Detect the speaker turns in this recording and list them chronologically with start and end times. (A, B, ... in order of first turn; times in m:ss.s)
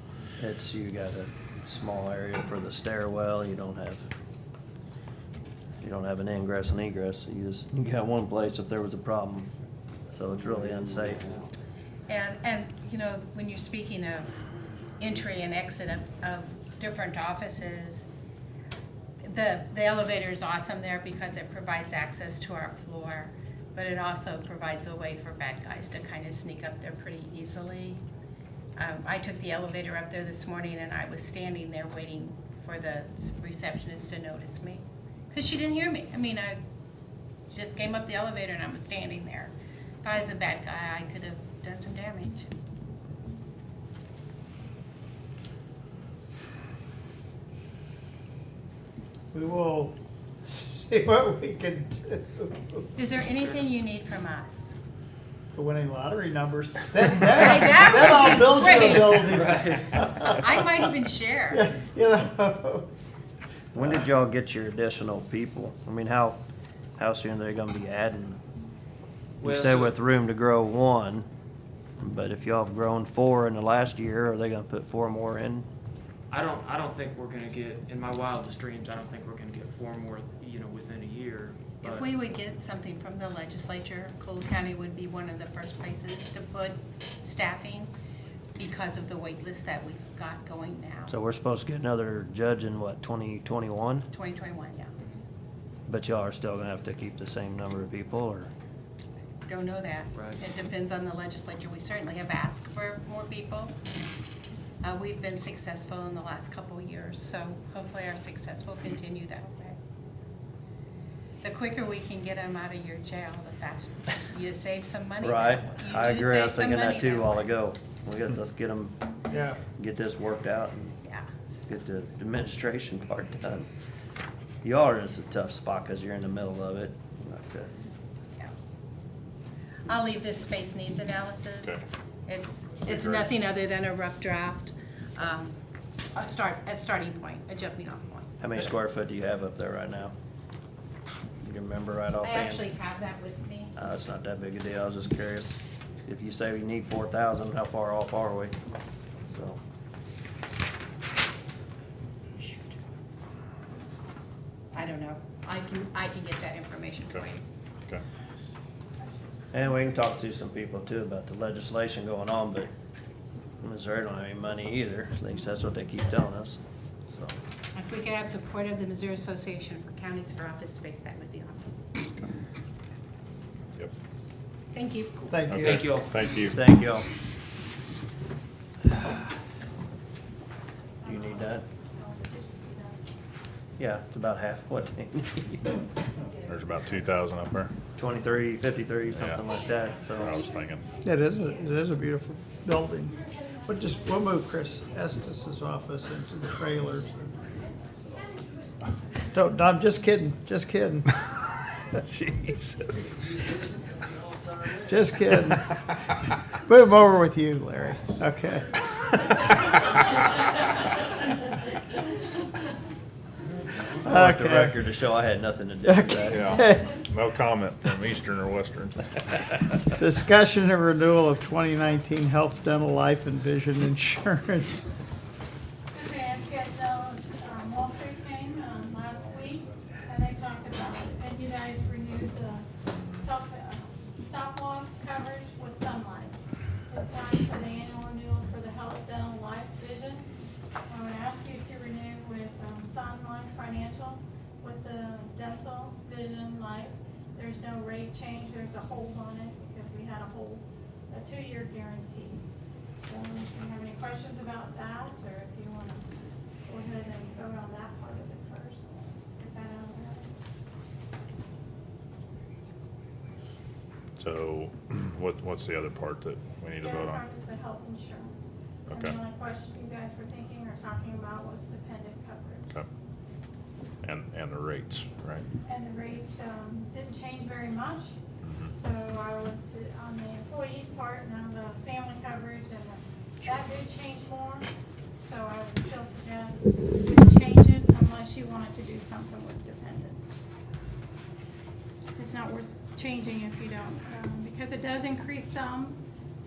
0:00.4-0:04.0 A
0:05.8-0:09.5 A
0:10.1-0:11.4 A
0:12.1-0:14.4 B
0:15.0-0:18.1 B
0:19.2-0:28.0 B
0:28.8-0:36.6 B
0:37.5-0:42.5 B
0:49.3-0:50.0 C
0:50.5-0:52.9 C
0:53.0-0:54.7 B
0:55.5-1:00.5 C
0:57.3-0:59.4 B
0:58.8-1:00.0 D
1:00.3-1:01.7 B
1:01.5-1:02.9 C
1:03.7-1:06.4 A
1:07.0-1:08.4 A
1:09.4-1:09.9 D
1:09.4-1:11.2 A
1:12.0-1:15.7 A
1:16.3-1:22.0 D
1:21.8-1:27.9 B
1:28.6-1:31.1 B
1:31.1-1:34.1 A
1:34.1-1:35.0 B
1:35.9-1:38.5 A
1:39.4-1:43.8 B
1:44.8-1:49.8 B
1:51.4-1:57.5 B
1:55.2-1:59.0 A
1:59.3-1:59.6 C
1:59.8-2:01.0 A
2:01.0-2:01.6 B
2:01.7-2:03.7 A
2:04.6-2:07.7 A
2:09.9-2:15.6 B
2:12.9-2:13.2 E
2:16.1-2:18.3 B
2:18.4-2:20.1 A
2:21.4-2:22.6 A
2:22.2-2:23.7 B
2:23.8-2:28.6 A
2:29.2-2:29.6 A
2:34.7-2:37.4 B
2:39.5-2:42.7 A
2:43.6-2:46.6 A
2:47.1-2:47.4 A
2:47.7-2:51.8 B
2:54.7-2:55.2 B
2:55.3-2:55.8 C
2:55.5-2:56.6 E
2:55.5-2:56.1 D
2:56.5-2:57.1 A
3:01.0-3:03.0 F
3:01.1-3:01.6 A
3:03.8-3:05.8 A
3:06.4-3:07.7 E
3:08.0-3:10.3 A
3:09.1-3:09.4 E
3:10.2-3:10.8 E
3:11.0-3:17.5 C
3:19.3-3:21.1 C
3:24.8-3:25.7 C
3:26.6-3:28.8 C
3:34.0-3:36.5 A
3:34.1-3:34.8 C
3:35.9-3:36.9 C
3:36.3-3:39.6 E
3:40.0-3:44.9 C
3:45.9-4:00.3 F
4:00.9-4:12.4 F
4:13.0-4:16.1 F
4:16.6-4:20.3 F
4:24.2-4:27.2 E
4:26.8-4:32.7 F
4:28.9-4:29.2 E
4:34.0-4:35.4 E
4:35.6-4:38.1 F
4:38.7-4:50.3 F
4:52.2-4:56.0 F